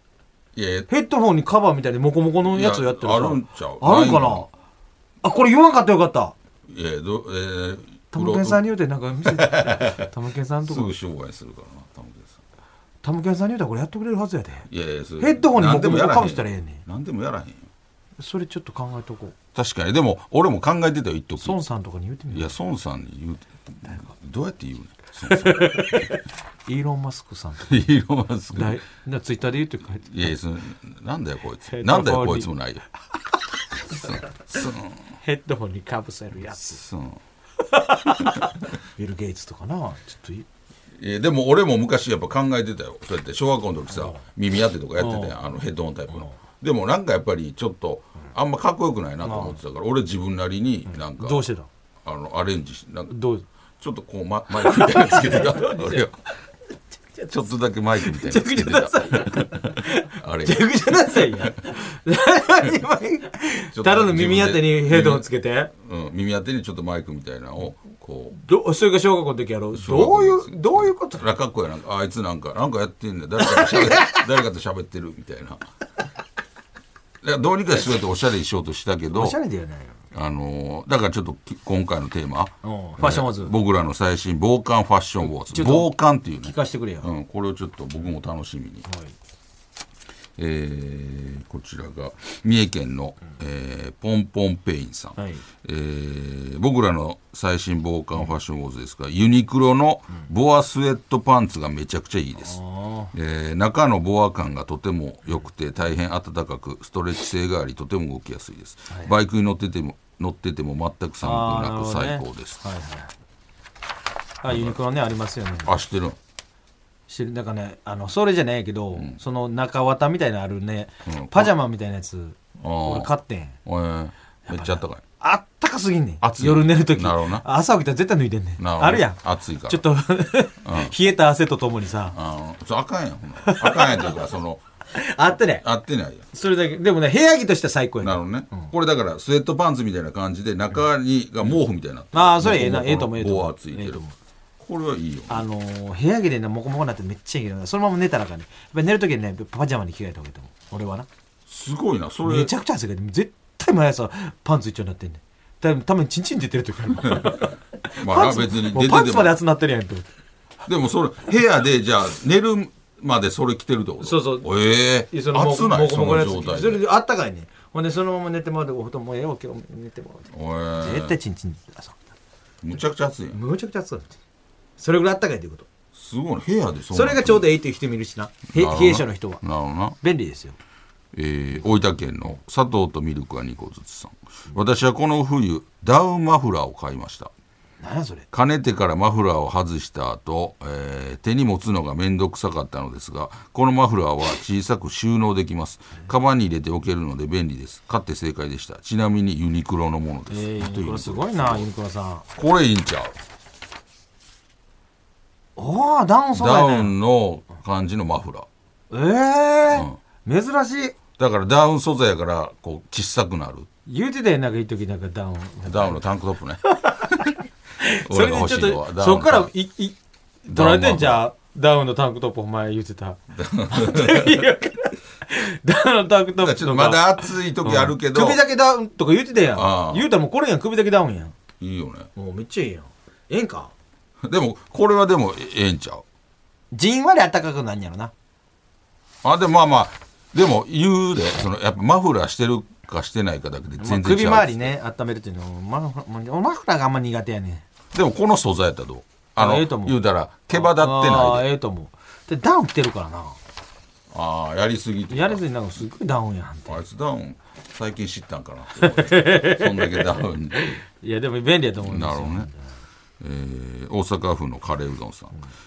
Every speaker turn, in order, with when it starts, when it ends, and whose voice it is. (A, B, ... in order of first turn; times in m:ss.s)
0:00.5-0:00.9 A
0:00.9-0:04.5 B
0:02.4-0:04.5 A
0:05.2-0:06.3 B
0:06.7-0:08.7 A
0:08.1-0:10.9 B
0:09.2-0:10.1 A
0:10.7-0:12.4 A
0:13.0-0:16.8 B
0:14.7-0:17.7 A
0:18.2-0:19.3 B
0:19.5-0:21.6 A
0:21.4-0:22.5 B
0:22.3-0:26.1 A
0:25.3-0:27.8 B
0:27.7-0:28.8 A
0:28.5-0:30.3 B
0:30.1-0:32.8 A
0:31.7-0:32.5 B
0:33.9-0:34.2 B
0:33.9-0:35.2 A
0:35.2-0:36.8 B
0:36.6-0:37.2 A
0:37.6-0:40.5 B
0:41.0-0:51.4 A
0:43.9-0:44.2 B
0:45.0-0:45.4 B
0:46.1-0:46.4 B
0:49.2-0:49.6 B
0:50.9-0:51.7 B
0:52.0-0:53.1 A
0:53.1-0:53.4 B
0:53.8-0:56.2 A
0:54.6-0:56.1 B
0:57.2-1:01.6 A
0:58.0-1:05.7 B
1:03.7-1:08.4 A
1:08.3-1:11.2 B
1:09.8-1:15.7 A
1:13.5-1:14.2 B
1:17.2-1:19.4 A
1:19.1-1:20.0 B
1:20.1-1:28.9 A
1:22.6-1:23.5 B
1:25.5-1:27.1 B
1:28.9-1:29.1 B
1:30.4-1:42.6 A
1:35.2-1:35.4 B
1:42.4-1:43.1 B
1:43.1-1:52.6 A
1:51.2-1:53.1 B
1:54.4-1:55.8 B
1:54.5-1:54.8 A
1:55.7-1:56.2 A
1:57.1-2:03.6 B
2:01.0-2:01.5 A
2:02.6-2:03.1 A
2:03.6-2:05.0 A
2:04.5-2:12.2 B
2:06.2-2:07.4 A
2:08.6-2:09.9 A
2:10.6-2:10.9 A
2:12.1-2:14.6 A
2:13.4-2:14.2 B
2:14.9-2:15.6 B
2:15.6-2:16.2 A
2:16.3-2:18.7 B
2:18.0-2:24.0 A
2:22.1-2:24.2 B
2:24.6-2:25.4 A
2:25.3-2:31.1 B
2:31.5-2:32.5 A
2:32.2-2:40.1 B
2:37.0-2:39.4 A
2:40.6-2:46.8 A
2:44.0-2:44.5 B
2:45.1-2:52.0 B
2:50.3-2:51.2 A
2:52.6-2:53.4 A
2:53.3-2:54.2 B
2:54.8-2:55.7 B
2:55.9-2:57.5 A
2:56.9-2:59.4 B
2:58.5-3:00.0 A
3:00.0-3:00.6 B
3:01.1-3:07.3 A
3:07.8-3:08.3 B
3:08.3-3:21.7 A
3:20.3-3:22.2 B
3:22.4-3:23.2 A
3:25.6-3:26.9 B
3:26.3-3:28.5 A
3:28.9-3:31.0 B
3:29.7-3:30.0 A
3:31.2-3:33.7 A
3:33.8-3:36.0 B
3:35.6-3:37.4 A
3:36.6-3:37.2 B
3:37.8-3:51.4 B
3:38.0-3:39.5 A
3:40.5-3:41.2 A
3:43.3-3:44.4 A
3:46.4-3:48.4 A
3:49.5-3:50.1 A
3:51.6-3:52.1 A
3:52.2-3:53.7 B
3:54.2-3:56.0 A
3:56.7-3:58.1 B
3:59.2-4:04.7 A
4:03.8-4:07.6 B
4:07.9-4:11.5 A
4:09.4-4:10.0 B
4:10.5-4:13.4 B
4:14.1-4:15.4 A
4:15.1-4:16.8 B
4:16.7-4:20.8 A
4:18.8-4:22.7 B
4:21.8-4:22.5 A
4:23.2-4:25.4 A